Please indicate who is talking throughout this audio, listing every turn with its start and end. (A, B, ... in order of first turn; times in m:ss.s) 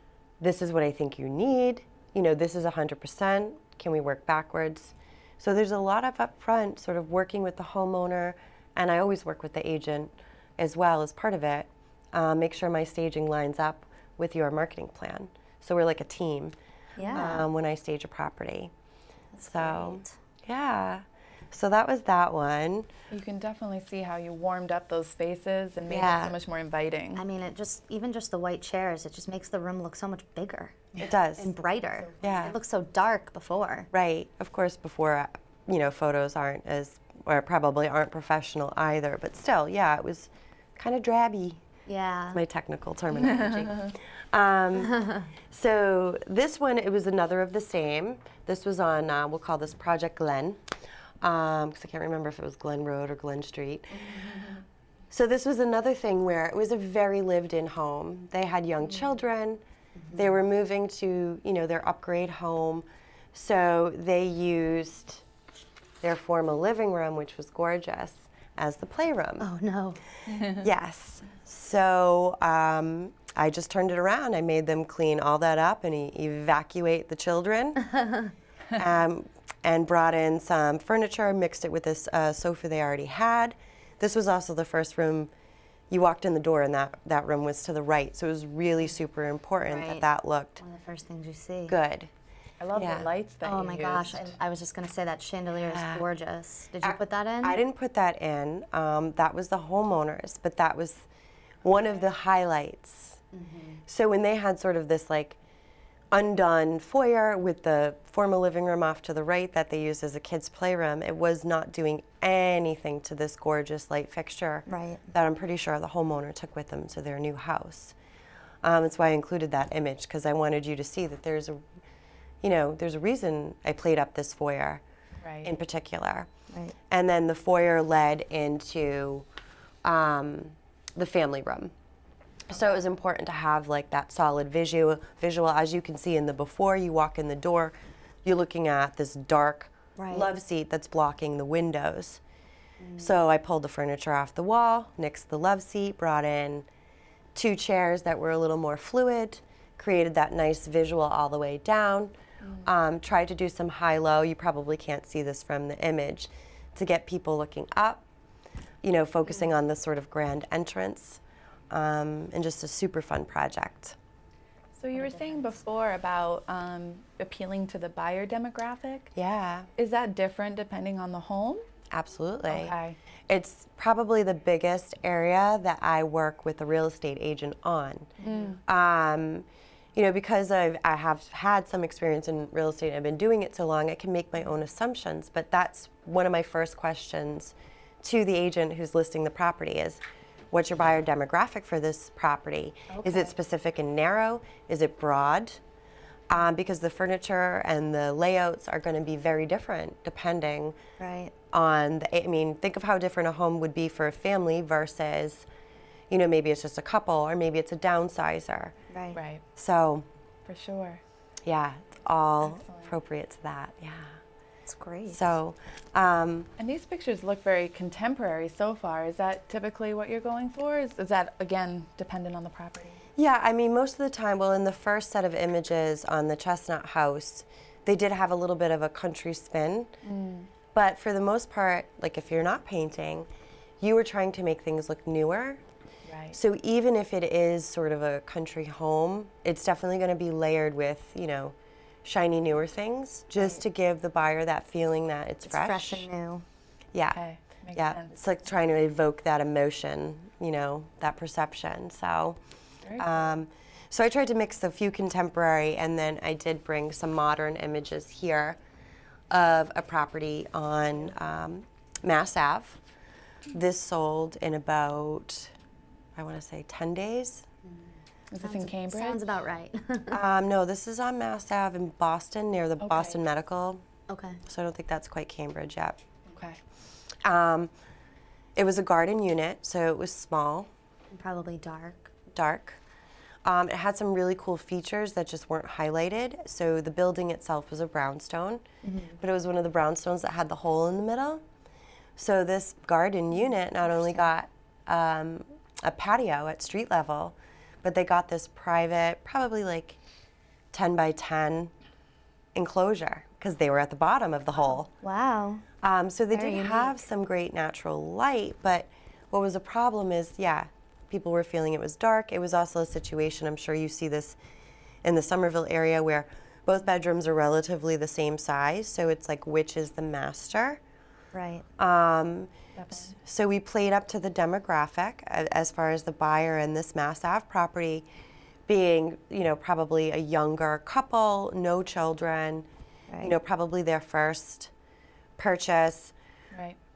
0:00.4-0:16.5 A
0:17.0-0:17.5 B
0:17.1-0:18.7 A
0:19.3-0:20.2 B
0:19.4-0:22.9 A
0:23.1-0:27.2 C
0:25.9-0:26.3 A
0:27.1-0:33.9 B
0:31.0-0:31.5 A
0:32.0-0:32.4 C
0:32.2-0:32.6 A
0:33.9-0:41.6 A
0:41.9-0:42.4 B
0:42.3-0:50.6 A
0:43.2-0:43.9 C
0:51.2-0:54.5 A
0:55.1-0:59.6 A
1:00.0-1:00.3 B
1:00.1-1:05.2 A
1:06.0-1:09.5 A
1:09.4-1:10.0 B
1:10.3-1:10.6 C
1:10.3-1:17.9 A
1:18.7-1:25.3 A
1:25.9-1:30.6 A
1:29.6-1:30.0 B
1:30.6-1:31.8 B
1:31.7-1:32.1 A
1:32.6-1:34.4 C
1:32.7-1:33.1 A
1:33.4-1:37.6 B
1:35.6-1:36.0 A
1:36.8-1:41.1 A
1:41.6-1:43.2 A
1:43.3-1:43.8 B
1:43.9-1:45.4 A
1:46.1-1:58.0 A
1:54.7-1:55.0 B
1:58.6-2:01.6 A
2:02.4-2:04.8 A
2:05.2-2:05.5 C
2:05.4-2:06.3 A
2:06.5-2:06.8 B
2:06.9-2:09.3 A
2:09.8-2:11.7 A
2:12.5-2:22.2 A
2:20.0-2:20.3 B
2:22.8-2:23.1 B
2:23.0-2:26.7 A
2:27.3-2:38.0 A
2:32.4-2:32.7 C
2:38.8-2:44.0 A
2:44.8-2:49.1 C
2:44.9-2:45.6 B
2:49.1-2:49.7 A
2:49.8-2:51.6 C
2:51.9-2:52.8 A
2:52.5-2:53.0 C
2:53.3-3:15.6 A
2:58.2-2:58.6 C
3:12.9-3:13.3 C
3:16.3-3:20.8 A
3:21.0-3:21.3 B
3:21.5-3:25.5 A
3:26.1-3:28.8 A
3:28.9-3:29.2 B
3:29.1-3:29.4 C
3:29.6-3:30.1 A
3:30.4-3:31.0 C
3:31.4-3:34.2 A
3:32.4-3:32.9 C
3:34.7-3:35.2 B
3:35.1-3:36.5 A
3:36.6-3:43.0 C
3:43.2-3:49.9 A
3:50.0-3:50.5 C
3:50.7-3:53.3 A
3:53.8-3:55.6 A
3:56.1-3:56.4 C
3:56.3-4:06.1 A
4:05.4-4:06.4 B
4:06.9-4:07.2 A
4:07.1-4:08.1 C
4:07.7-4:12.4 A
4:12.8-4:13.3 C
4:13.0-4:18.6 A
4:19.3-4:22.8 A
4:23.5-4:25.5 A
4:26.2-4:27.5 A
4:28.3-4:29.3 C
4:28.4-4:30.2 B
4:30.1-4:33.8 A
4:32.8-4:33.2 C
4:34.1-4:34.4 B
4:34.4-4:36.0 A
4:36.3-4:36.6 C
4:37.2-4:37.7 A
4:38.6-4:40.7 A
4:41.1-4:42.1 B
4:42.3-4:42.8 A
4:43.4-4:48.6 A
4:48.8-4:49.2 B
4:49.2-4:51.4 A
4:52.2-5:00.0 A
5:00.7-5:01.7 A
5:02.5-5:04.9 A
5:05.0-5:05.6 B
5:05.8-5:14.4 A
5:06.3-5:07.0 B
5:15.0-5:20.8 A
5:21.3-5:21.6 B
5:21.8-5:28.0 A
5:22.8-5:23.1 C
5:28.7-5:32.7 A
5:33.1-5:33.3 B
5:33.2-5:34.7 A
5:35.4-5:36.1 A
5:36.5-5:36.8 C